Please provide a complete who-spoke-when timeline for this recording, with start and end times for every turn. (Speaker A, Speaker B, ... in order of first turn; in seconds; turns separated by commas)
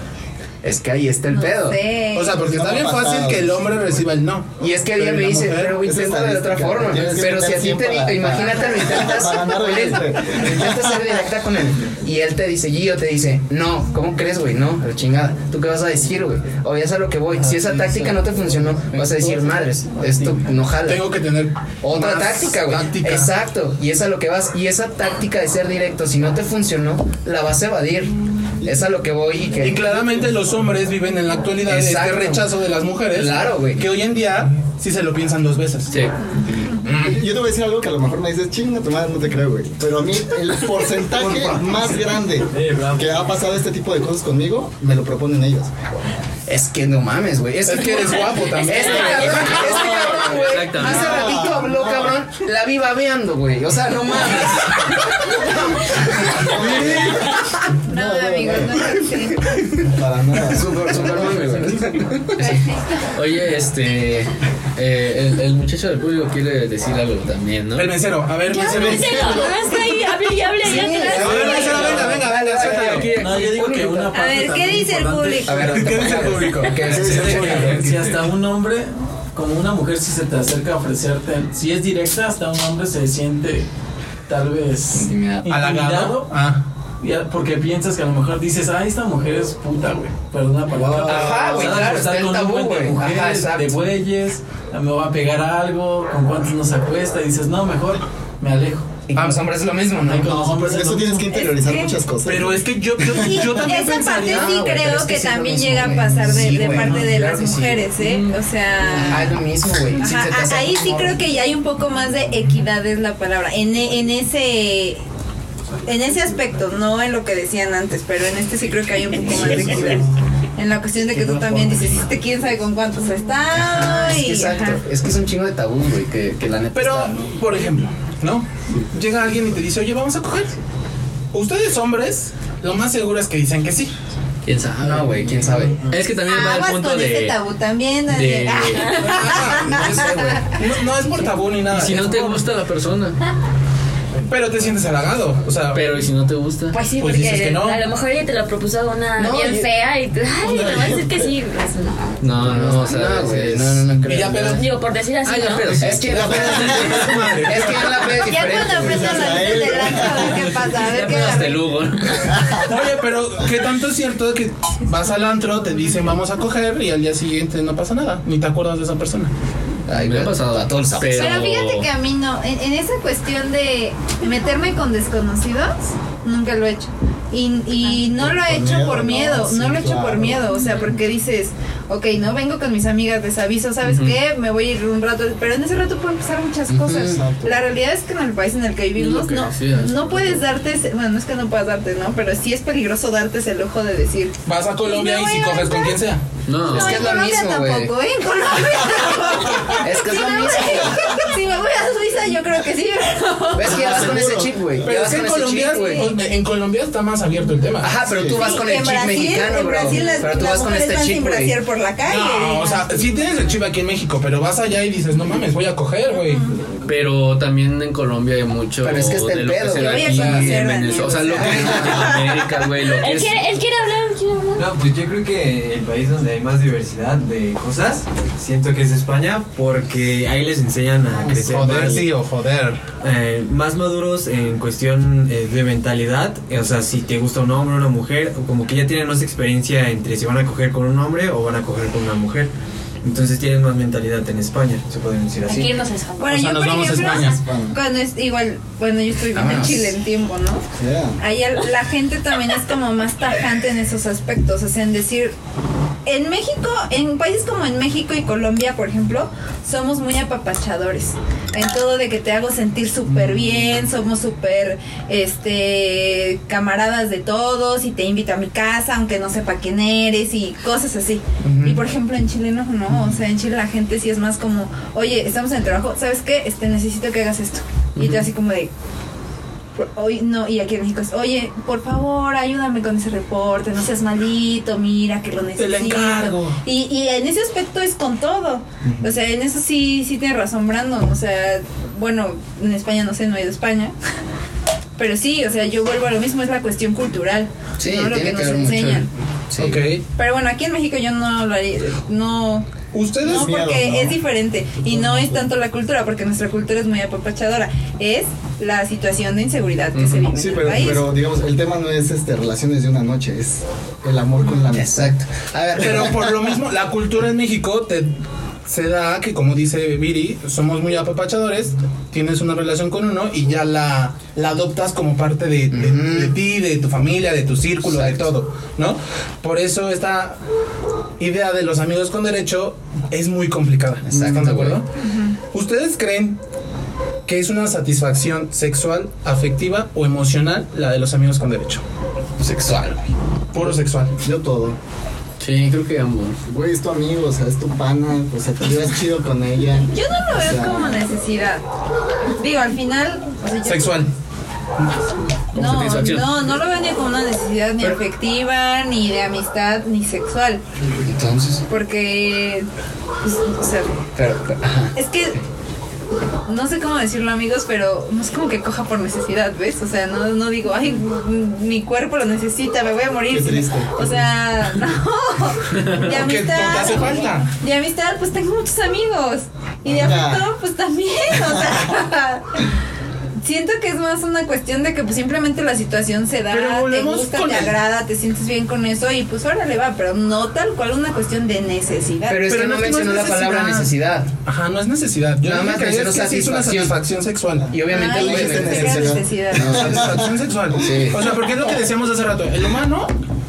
Speaker A: 0.6-1.8, Speaker B: 1.3-2.4, Speaker C: 2.1-5.8, Speaker D: 2.3-4.1, Speaker A: 4.6-21.1, Speaker D: 5.8-10.9, Speaker C: 20.8-23.3, Speaker A: 21.8-30.1, Speaker C: 29.6-35.9, Speaker A: 31.6-32.4, Speaker A: 33.1-33.8, Speaker D: 36.8-45.7, Speaker E: 41.1-43.4, Speaker A: 46.5-54.9, Speaker C: 47.6-50.1, Speaker F: 49.6-50.0, Speaker G: 49.7-51.3, Speaker D: 50.8-52.2, Speaker A: 55.9-56.4, Speaker D: 56.0-59.0, Speaker B: 57.9-59.4, Speaker D: 59.8-61.8, Speaker A: 60.5-62.6, Speaker G: 62.4-67.9, Speaker B: 62.4-63.1, Speaker C: 67.7-69.4, Speaker F: 68.4-71.9, Speaker D: 68.6-69.8, Speaker A: 70.6-73.9, Speaker C: 71.2-73.2, Speaker D: 71.2-71.9, Speaker G: 71.7-74.1, Speaker E: 71.8-72.1, Speaker E: 73.1-83.7, Speaker B: 74.1-75.9, Speaker A: 75.5-77.8, Speaker C: 75.8-78.1, Speaker D: 76.8-77.9, Speaker E: 84.3-86.4, Speaker A: 85.0-85.4, Speaker G: 85.0-85.3, Speaker C: 85.4-86.6, Speaker E: 87.0-99.0, Speaker G: 90.7-91.9, Speaker A: 91.0-93.8, Speaker D: 91.2-91.6, Speaker A: 99.1-100.5, Speaker C: 99.2-99.4, Speaker E: 100.0-101.5, Speaker D: 100.2-103.4, Speaker B: 101.3-101.9, Speaker C: 102.2-104.6, Speaker B: 103.1-109.3, Speaker A: 104.2-107.8, Speaker C: 106.3-107.8, Speaker A: 108.9-111.2, Speaker B: 110.0-115.0, Speaker B: 115.8-124.8, Speaker A: 121.3-121.7, Speaker A: 123.5-127.2, Speaker C: 126.7-130.5, Speaker C: 131.3-133.9, Speaker G: 134.4-137.3, Speaker A: 134.8-135.8, Speaker B: 136.2-140.3, Speaker G: 138.1-139.1, Speaker C: 138.9-142.5, Speaker A: 139.6-140.4, Speaker G: 141.7-143.2, Speaker C: 144.2-145.8, Speaker G: 145.7-146.8, Speaker F: 146.7-152.2, Speaker C: 146.9-147.8, Speaker A: 149.2-149.7, Speaker D: 150.4-151.3, Speaker G: 152.2-153.9, Speaker A: 152.4-154.6, Speaker C: 154.0-154.6, Speaker F: 154.5-155.9, Speaker G: 155.2-157.5, Speaker A: 155.8-159.4, Speaker D: 156.0-157.5, Speaker C: 157.0-157.7, Speaker B: 158.2-161.6, Speaker D: 158.4-160.5, Speaker G: 160.8-162.7, Speaker D: 162.3-162.6, Speaker C: 162.6-169.3, Speaker A: 169.9-171.4, Speaker G: 169.9-171.9, Speaker B: 171.1-196.0, Speaker D: 178.1-180.4, Speaker G: 183.8-184.2, Speaker A: 186.7-187.2, Speaker D: 186.9-187.6, Speaker G: 188.9-190.4, Speaker C: 194.4-196.2, Speaker G: 196.4-197.1, Speaker B: 196.6-204.1, Speaker A: 196.7-197.9, Speaker A: 199.7-201.0, Speaker A: 203.5-206.1, Speaker D: 203.6-204.9, Speaker C: 204.8-208.0, Speaker B: 205.6-206.1, Speaker A: 207.8-211.6, Speaker D: 208.0-208.4, Speaker B: 208.4-213.2, Speaker C: 210.0-210.6, Speaker C: 212.0-216.4, Speaker B: 216.2-216.5, Speaker G: 216.8-223.4, Speaker A: 218.8-220.6, Speaker B: 219.8-222.2, Speaker D: 221.5-222.1, Speaker H: 221.6-222.6, Speaker F: 223.0-224.7, Speaker H: 224.6-232.2, Speaker D: 231.1-232.0, Speaker C: 231.4-232.8, Speaker H: 233.0-242.5, Speaker H: 243.0-245.8, Speaker F: 245.4-246.4, Speaker B: 246.2-250.6, Speaker C: 246.3-247.4, Speaker D: 247.3-247.8, Speaker A: 249.3-249.9, Speaker D: 250.8-251.2, Speaker B: 251.2-255.3, Speaker B: 256.1-278.7, Speaker C: 271.4-271.8, Speaker G: 278.0-278.3, Speaker B: 279.8-293.9, Speaker C: 285.6-286.6, Speaker D: 288.8-289.1, Speaker B: 295.0-299.1, Speaker A: 297.8-299.8, Speaker C: 299.6-300.0, Speaker B: 300.2-302.7, Speaker C: 302.9-303.6, Speaker D: 303.2-304.2, Speaker B: 303.2-311.0, Speaker D: 304.8-305.5, Speaker G: 309.9-310.3, Speaker D: 310.3-315.1, Speaker A: 314.7-316.2, Speaker C: 315.8-318.1, Speaker C: 318.6-330.4, Speaker A: 325.7-326.4, Speaker A: 327.8-328.3, Speaker C: 331.2-334.9, Speaker A: 334.0-334.8, Speaker B: 335.0-335.3, Speaker C: 335.5-336.4, Speaker C: 337.3-341.8, Speaker A: 342.4-343.0, Speaker C: 343.5-344.1, Speaker D: 343.6-344.8, Speaker G: 345.4-346.4, Speaker D: 346.4-351.0, Speaker B: 349.9-351.6, Speaker B: 352.4-354.1, Speaker C: 353.6-354.1, Speaker B: 355.5-360.6, Speaker G: 355.5-356.3, Speaker A: 361.0-361.6, Speaker B: 361.7-362.7, Speaker B: 363.2-364.0, Speaker A: 364.1-364.9, Speaker B: 364.9-365.3, Speaker B: 366.5-382.6, Speaker D: 373.3-374.2, Speaker C: 375.9-377.5, Speaker D: 379.8-380.4, Speaker B: 383.4-392.4, Speaker C: 386.5-387.8, Speaker A: 392.3-394.3, Speaker C: 392.4-393.9, Speaker C: 394.4-397.7, Speaker A: 395.4-397.0, Speaker A: 397.7-400.1, Speaker D: 397.8-400.4, Speaker B: 397.9-399.9, Speaker C: 398.5-403.1, Speaker A: 400.8-401.2